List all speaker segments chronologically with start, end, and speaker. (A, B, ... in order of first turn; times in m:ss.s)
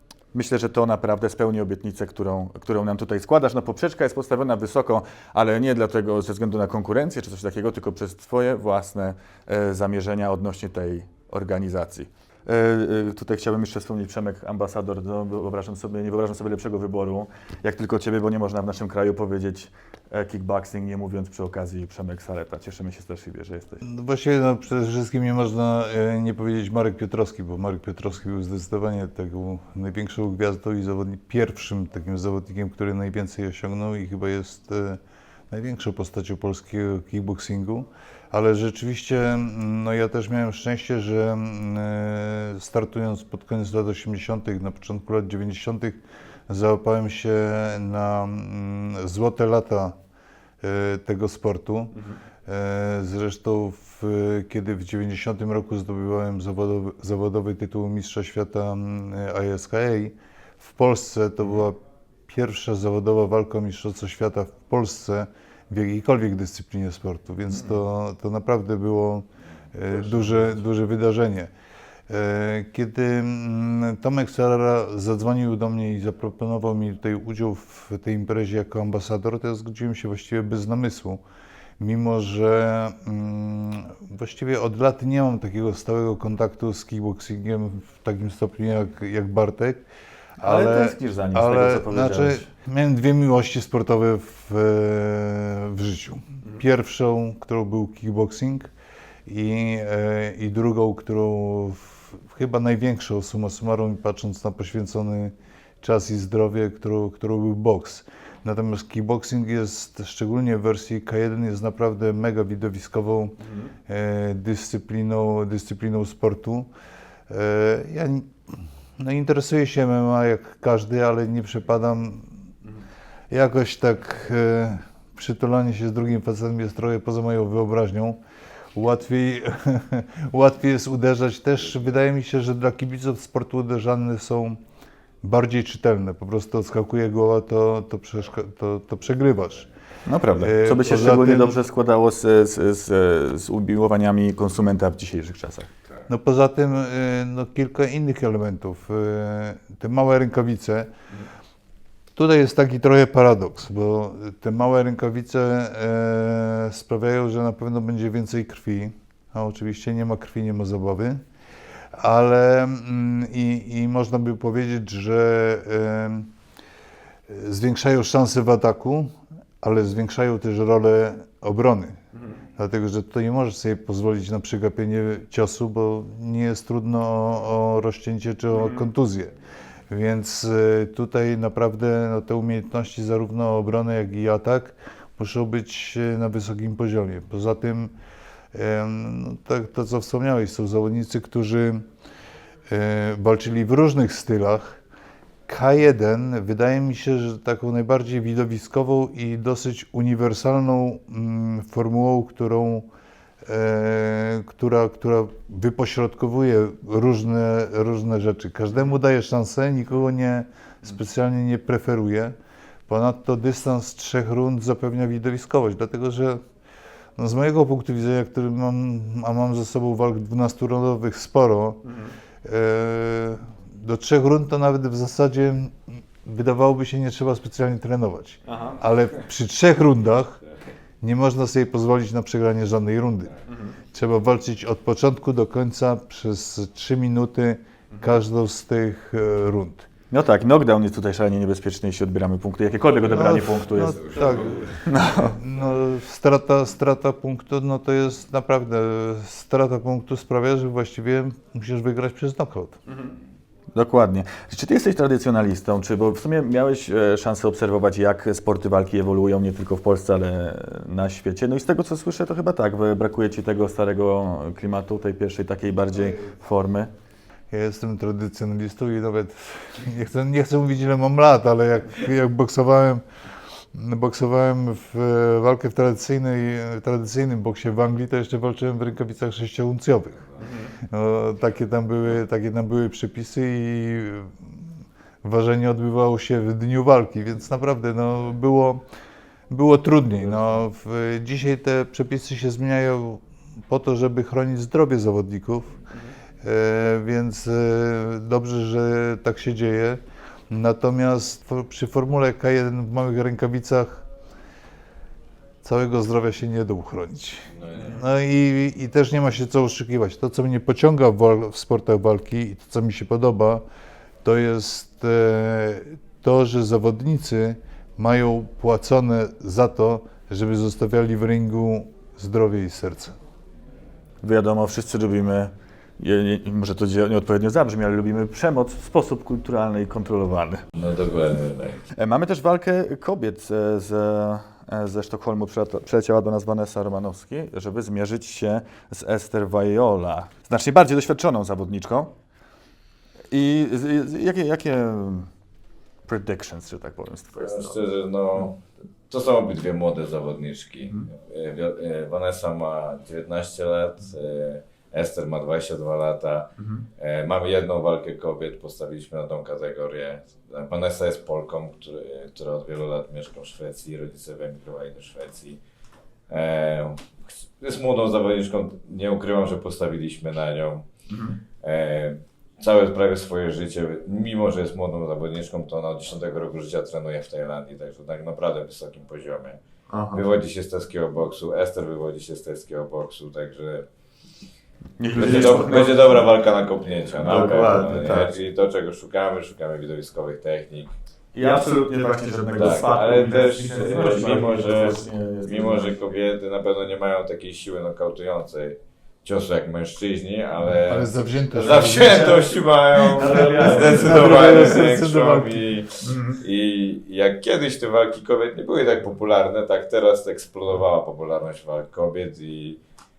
0:00.3-0:23.8 A
0:23.8-0:50.0 B
0:50.6-1:11.5 B
1:07.5-1:07.8 A
1:09.9-1:10.6 A
1:12.1-1:21.2 B
1:21.8-1:29.8 B
1:30.4-1:38.7 B
1:30.4-1:32.5 A
1:39.2-1:53.4 B
1:53.4-1:53.7 A
1:53.9-1:56.7 B
1:57.3-2:02.3 B
2:03.3-2:08.2 B
2:08.7-2:14.6 B
2:15.2-2:19.7 B
2:20.0-2:25.7 A
2:20.3-2:21.6 B
2:26.1-2:30.9 B
2:32.2-2:41.2 B
2:41.9-2:46.3 B
2:47.3-2:52.0 B
2:52.1-2:52.4 A
2:52.6-2:59.3 B
2:58.5-2:58.9 A
2:59.9-3:07.9 B
3:08.5-3:11.8 B
3:12.7-3:14.8 B
3:15.5-3:22.9 B
3:23.4-3:32.4 B
3:32.9-3:36.4 B
3:37.2-3:41.8 B
3:41.8-3:42.1 A
3:42.4-3:50.4 B
3:48.4-3:48.8 A
3:51.0-3:53.4 B
3:53.5-3:53.8 A
3:53.9-3:59.9 B
4:00.1-4:04.0 A
4:03.0-4:12.8 B
4:03.8-4:04.8 C
4:04.8-4:05.4 A
4:12.9-4:13.1 A
4:13.7-4:26.9 A
4:27.5-4:33.0 B
4:33.7-4:40.2 B
4:40.4-4:40.7 A
4:40.8-4:44.6 B
4:45.2-4:48.8 B
4:49.5-4:55.8 B
4:56.4-5:04.0 B
5:05.6-5:13.6 B
5:07.5-5:08.0 C
5:14.2-5:23.2 B
5:24.2-5:30.6 A
5:30.8-5:31.8 C
5:31.9-5:42.1 A
5:43.3-5:45.3 A
5:46.0-5:47.8 A
5:47.4-6:05.6 C
5:56.6-5:56.8 A
6:06.3-6:10.9 C
6:11.1-6:11.4 A
6:11.6-6:19.6 C
6:19.9-6:20.2 A
6:20.1-6:23.8 C
6:25.0-6:26.2 A
6:25.2-6:30.9 C
6:27.2-6:28.3 A
6:31.3-6:36.0 A
6:32.6-6:52.8 C
6:40.8-6:42.4 B
6:41.8-6:42.5 A
6:43.0-6:44.6 A
6:43.4-6:45.7 B
6:46.0-6:46.4 A